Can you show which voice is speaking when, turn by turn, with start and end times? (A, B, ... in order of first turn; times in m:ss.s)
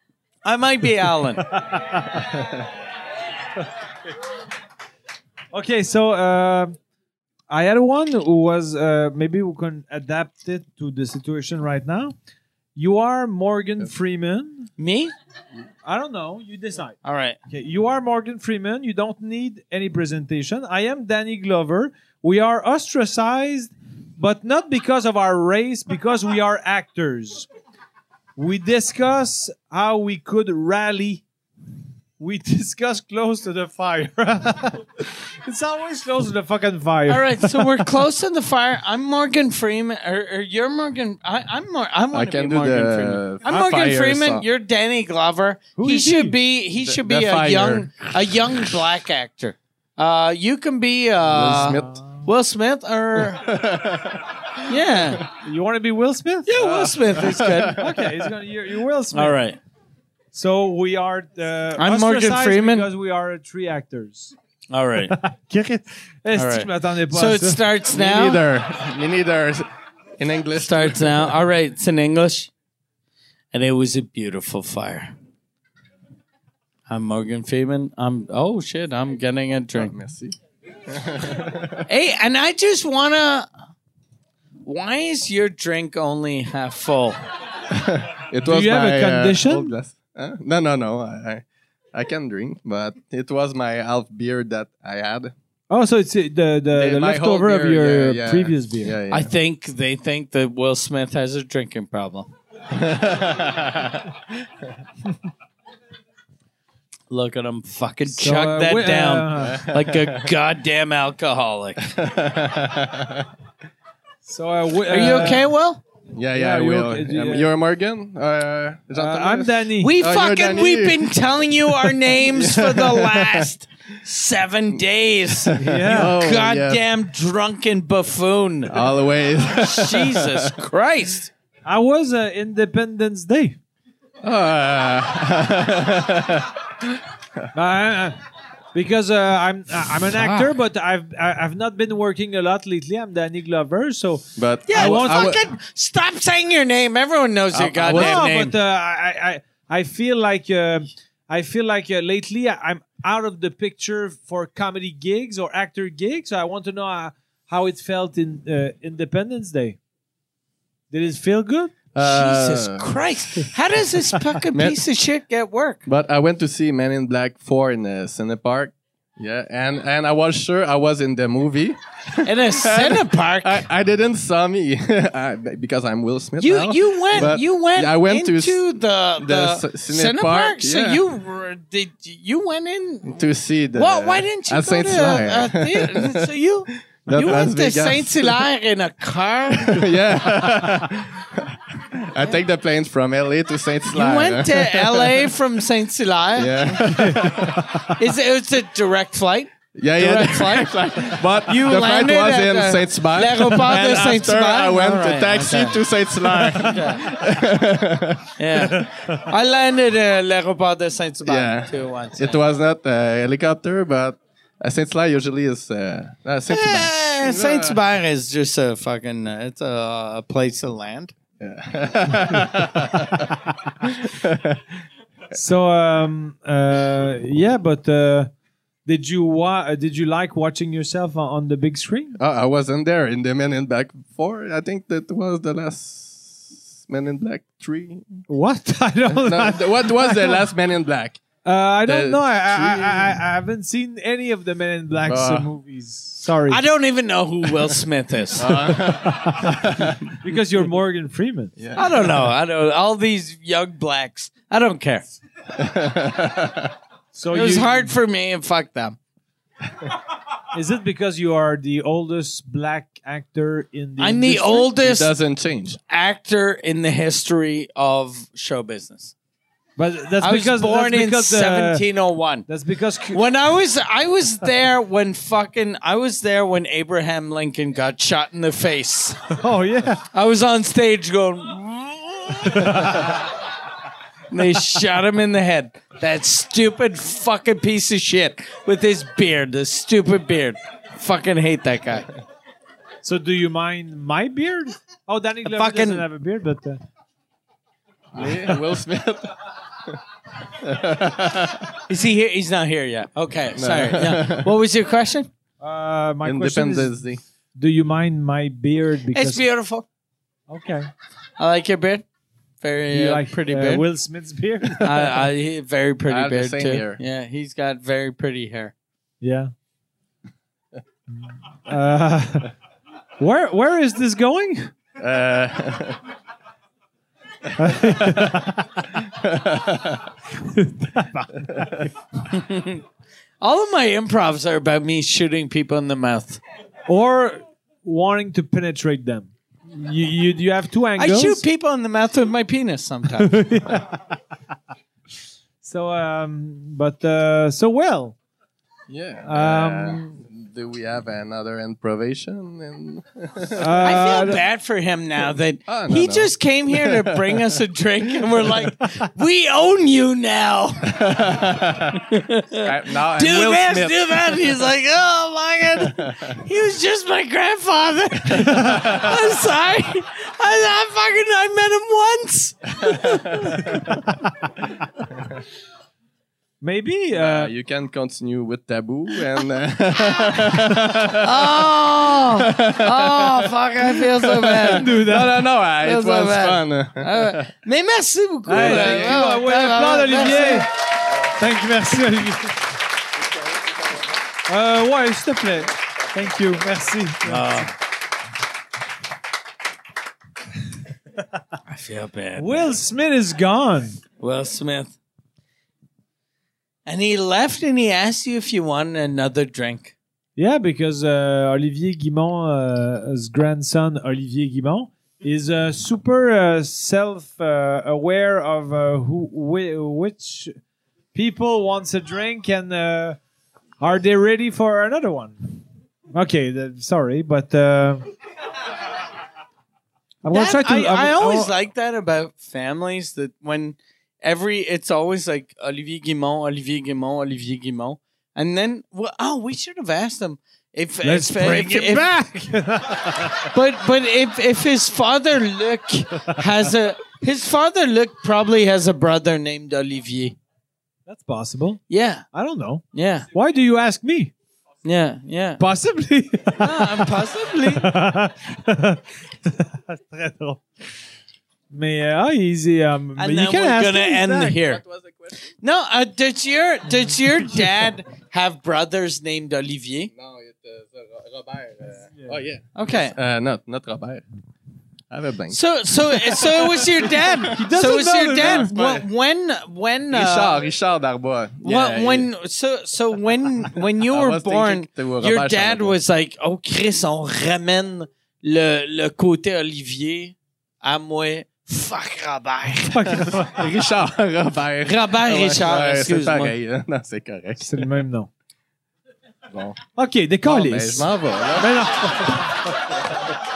0:00.4-0:01.6 A
0:01.4-0:02.4 B
0:02.3-0:02.6 C
0:05.5-0:06.8 B
0:07.5-0:12.2 B
0:12.8-0:14.7 B
0:14.8-0:15.1 A
0:15.8-0:17.0 B
0:17.0-0:17.4 A
0:17.5-0:27.5 B
0:28.4-0:31.2 B
0:32.2-0:37.8 B
0:37.1-0:53.6 A
0:42.1-0:44.4 C
0:45.8-0:46.4 B
0:46.8-0:48.6 C
0:51.2-0:52.0 C
0:53.2-0:54.6 C
0:54.6-0:55.3 A
0:55.3-0:59.4 B
0:56.5-0:57.8 A
0:57.2-0:58.3 C
0:59.1-0:59.6 A
1:00.3-1:04.3 B
1:01.8-1:02.9 A
1:04.7-1:05.2 A
1:05.1-1:07.6 B
1:06.4-1:08.4 A
1:07.9-1:09.7 C
1:10.2-1:11.4 C
1:10.6-1:12.5 A
1:13.5-1:15.1 A
1:16.9-1:20.0 A
1:19.8-1:20.4 C
1:20.9-1:21.9 C
1:21.9-1:23.5 A
1:24.6-1:27.2 A
1:27.7-1:35.3 C
1:28.4-1:29.7 B
1:35.7-1:39.0 B
1:36.7-1:39.3 C
1:39.1-1:42.3 A
1:42.7-1:44.1 C
1:47.1-1:51.9 A
1:48.1-1:49.6 B
1:49.4-1:50.3 C
1:51.8-1:53.3 C
1:54.2-1:55.4 B
1:54.9-1:55.8 A
1:56.1-2:03.5 C
1:56.3-1:57.5 B
1:58.9-2:00.0 B
1:59.8-2:08.8 A
2:05.4-2:06.8 C
2:05.6-2:06.2 B
2:08.7-2:10.5 C
2:09.6-2:11.3 A
2:11.6-2:13.6 B
2:14.2-2:16.6 C
2:17.5-2:18.2 B
2:18.7-2:25.4 B
2:24.4-2:25.5 C
2:24.7-2:28.6 A
2:27.5-2:28.3 C
2:27.9-2:39.8 B
2:40.9-2:41.7 B
2:41.9-2:43.5 C
2:42.0-2:45.8 A
2:44.5-2:44.8 C
2:45.9-3:01.0 C
2:52.2-2:53.7 A
2:56.4-3:09.9 A
3:03.0-3:08.4 C
3:09.5-3:15.4 C
3:13.9-3:17.3 A
3:16.4-3:17.9 C
3:16.8-3:17.9 B
3:17.9-3:25.8 A
3:19.8-3:28.8 C
3:26.4-3:27.1 A
3:28.4-3:32.4 A
3:31.3-3:37.8 C
3:36.5-3:41.1 A
3:41.4-3:44.6 C
3:45.3-3:48.3 B
3:48.9-3:52.2 B
3:52.2-3:58.2 C
3:58.3-4:00.4 B
3:59.2-4:01.2 C
4:01.4-4:06.6 B
4:01.8-4:03.2 C
4:05.1-4:05.5 C
4:06.5-4:08.8 A
4:08.4-4:10.2 C
4:08.9-4:11.5 B
4:11.6-4:12.3 C
4:11.8-4:15.0 A
4:15.6-4:16.7 C
4:17.1-4:17.9 B
4:17.3-4:19.0 A
4:20.5-4:24.7 B
4:24.0-4:25.1 A
4:24.8-4:25.8 C
4:25.9-4:29.1 A
4:29.8-4:31.8 B
4:30.2-4:32.5 A
4:32.5-4:33.2 B
4:33.1-4:39.3 A
4:39.3-4:40.0 B
4:40.1-4:43.3 A
4:42.5-4:43.1 B
4:44.3-4:52.1 A
4:53.0-4:56.8 B
4:55.5-4:56.0 A
4:58.1-4:59.4 C
5:00.5-5:01.8 C
5:01.9-5:05.3 A
5:03.6-5:04.5 C
5:05.6-5:07.0 B
5:06.2-5:07.2 C
5:07.6-5:09.4 B
5:09.1-5:09.9 A
5:10.5-5:10.9 B
5:11.4-5:12.0 A
5:12.6-5:13.8 A
5:12.9-5:15.2 B
5:14.8-5:18.7 A
5:16.1-5:17.0 C
5:19.2-5:19.5 B
5:21.2-5:22.5 B
5:23.2-5:24.7 B
5:25.0-5:26.0 C
5:27.6-5:28.9 B
5:28.0-5:28.3 C
5:29.0-5:30.1 C
5:30.4-5:31.7 B
5:31.5-5:31.9 C
5:32.3-5:32.8 A
5:33.4-5:36.4 A
5:36.9-5:41.4 B
5:41.0-5:43.4 A
5:43.2-5:44.1 B
5:45.6-5:48.2 B
5:48.9-5:54.3 C
5:49.2-5:50.0 B
5:53.6-5:54.4 B
5:53.8-6:13.7 A
5:55.7-5:57.6 C
6:00.8-6:04.6 C
6:05.8-6:06.4 C
6:08.3-6:09.2 C
6:12.8-6:14.0 C
6:16.6-6:17.5 B
6:17.1-6:27.5 C
6:21.2-6:25.0 A
6:24.6-6:25.4 B
6:25.8-6:30.7 A
6:28.5-6:32.7 B
6:28.5-6:29.2 C
6:34.5-6:37.7 B
6:37.3-6:37.7 A
6:41.7-6:42.7 A
6:42.4-6:44.0 B
6:44.2-6:45.0 A
6:46.9-6:50.0 A
6:50.4-7:00.5 B
7:01.1-7:03.2 B
7:03.8-7:08.1 B
7:10.2-7:11.5 B
7:10.3-7:22.1 A
7:21.0-7:23.5 B
7:23.5-7:30.4 A
7:31.1-7:34.3 B
7:31.9-7:32.2 A
7:32.9-7:33.3 A
7:34.8-7:35.6 A
7:35.6-7:40.6 B
7:36.6-7:37.9 A
7:41.7-7:44.6 B
7:43.2-7:44.8 A
7:44.5-7:45.5 C
7:45.6-7:50.1 A
7:50.1-7:54.2 C
7:52.8-7:53.2 A
7:55.1-7:57.8 C
7:55.5-8:00.6 A
7:57.4-7:58.8 B
7:58.4-7:59.1 C
8:00.1-8:02.3 C
8:01.6-8:13.2 A
8:04.1-8:06.0 C
8:12.8-8:13.8 B
8:13.1-8:18.0 C
8:14.8-8:16.5 A
8:17.6-8:18.3 B
8:19.5-8:19.8 C
8:20.0-8:22.9 B
8:20.4-8:22.4 C